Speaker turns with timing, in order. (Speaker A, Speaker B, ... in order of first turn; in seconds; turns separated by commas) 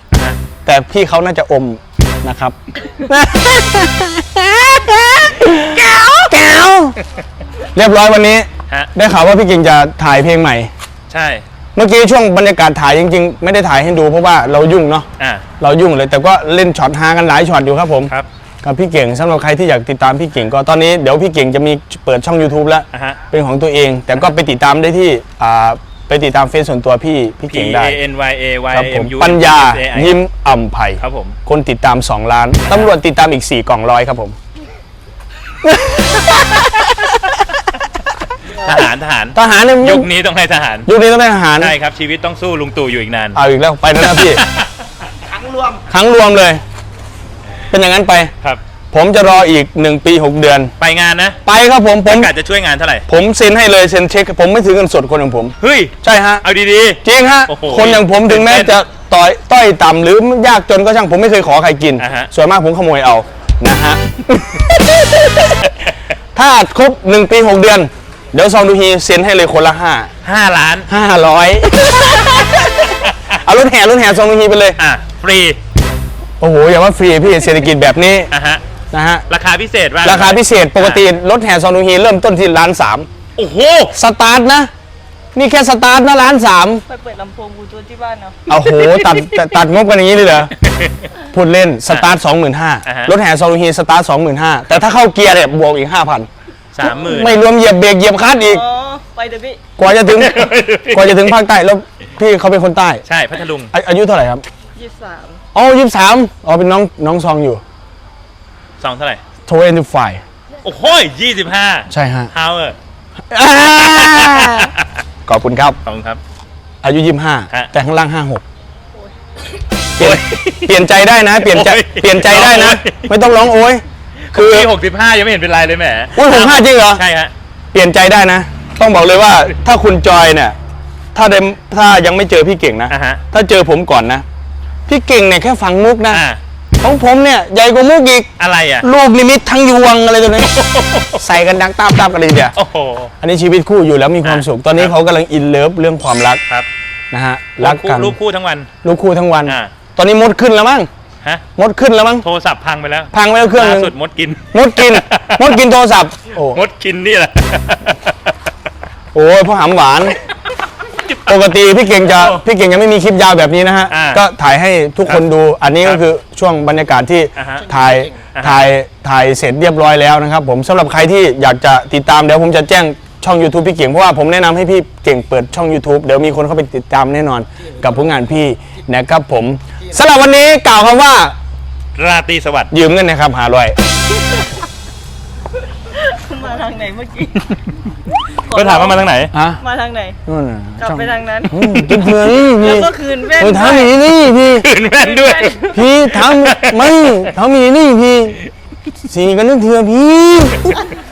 Speaker A: 0.1-0.4, Speaker B: 0.6-7.0, Speaker B: 7.7-10.7, Speaker A: 11.1-11.4, Speaker B: 11.7-15.1, Speaker A: 15.2-15.4, Speaker B: 15.6-18.1, Speaker B: 18.6-28.0, Speaker A: 22.9-23.2, Speaker A: 27.5-30.2, Speaker B: 28.7-34.4, Speaker A: 31.0-31.4, Speaker B: 35.6-37.3, Speaker A: 38.5-40.9, Speaker B: 39.3-40.1, Speaker B: 40.9-41.7, Speaker A: 41.6-43.4, Speaker B: 43.3-44.4, Speaker A: 44.0-44.7, Speaker B: 45.9-46.6, Speaker B: 47.7-48.3, Speaker B: 48.9-50.7, Speaker A: 50.8-51.4, Speaker B: 51.4-52.3, Speaker A: 52.0-53.0, Speaker B: 53.1-56.4, Speaker A: 55.6-58.7, Speaker B: 57.0-65.6, Speaker A: 62.0-62.3, Speaker B: 66.3-70.1, Speaker A: 70.2-70.9, Speaker B: 70.9-74.8, Speaker A: 73.0-73.3, Speaker A: 74.8-75.6, Speaker B: 76.4-78.3, Speaker A: 78.3-78.6, Speaker B: 78.9-79.2, Speaker A: 79.3-81.0, Speaker B: 80.0-83.1, Speaker A: 83.3-83.9, Speaker B: 83.9-84.7, Speaker B: 85.3-86.8, Speaker C: 86.9-89.3, Speaker B: 88.5-90.5, Speaker A: 90.6-91.1, Speaker B: 91.2-96.3, Speaker A: 91.9-92.2, Speaker A: 92.8-93.1, Speaker A: 96.7-97.5, Speaker B: 96.8-98.6, Speaker C: 98.4-99.6, Speaker B: 99.8-103.0, Speaker A: 100.1-101.3, Speaker A: 103.0-103.7, Speaker B: 103.7-104.4, Speaker C: 104.8-105.4, Speaker B: 105.5-107.6, Speaker A: 108.8-109.2, Speaker B: 109.5-110.2, Speaker A: 110.6-112.8, Speaker B: 111.9-112.3, Speaker B: 113.3-114.7, Speaker A: 113.9-115.0, Speaker B: 115.2-115.8, Speaker A: 115.8-116.2, Speaker B: 116.8-118.4, Speaker B: 120.0-124.7, Speaker A: 120.0-120.7, Speaker A: 121.4-123.1, Speaker A: 124.3-127.3, Speaker B: 126.1-127.0, Speaker B: 127.7-130.6, Speaker B: 131.1-134.2, Speaker A: 132.9-133.2, Speaker B: 134.9-136.2, Speaker A: 136.1-136.4, Speaker B: 136.8-138.3, Speaker A: 138.4-138.9, Speaker B: 138.8-140.5, Speaker A: 140.4-141.2, Speaker B: 141.1-142.6, Speaker A: 142.5-143.1, Speaker B: 143.2-146.4, Speaker A: 144.2-144.9, Speaker B: 147.1-148.2, Speaker A: 147.6-148.7, Speaker B: 148.8-150.9, Speaker A: 149.4-149.7, Speaker B: 151.6-152.2, Speaker A: 152.2-155.6, Speaker B: 153.1-153.9, Speaker B: 154.5-156.6, Speaker A: 156.4-158.1, Speaker B: 159.1-160.2, Speaker A: 161.0-161.5, Speaker B: 161.2-181.3, Speaker A: 162.0-162.4, Speaker A: 163.9-164.2, Speaker A: 167.3-167.6, Speaker A: 168.3-168.7, Speaker A: 181.9-182.7, Speaker B: 182.7-183.8, Speaker C: 185.9-187.6, Speaker C: 188.2-190.2, Speaker A: 188.4-189.3, Speaker B: 189.3-189.6, Speaker B: 190.2-194.7, Speaker C: 190.8-193.9, Speaker A: 194.6-197.3, Speaker C: 195.0-195.9, Speaker B: 195.7-198.4, Speaker B: 199.0-200.8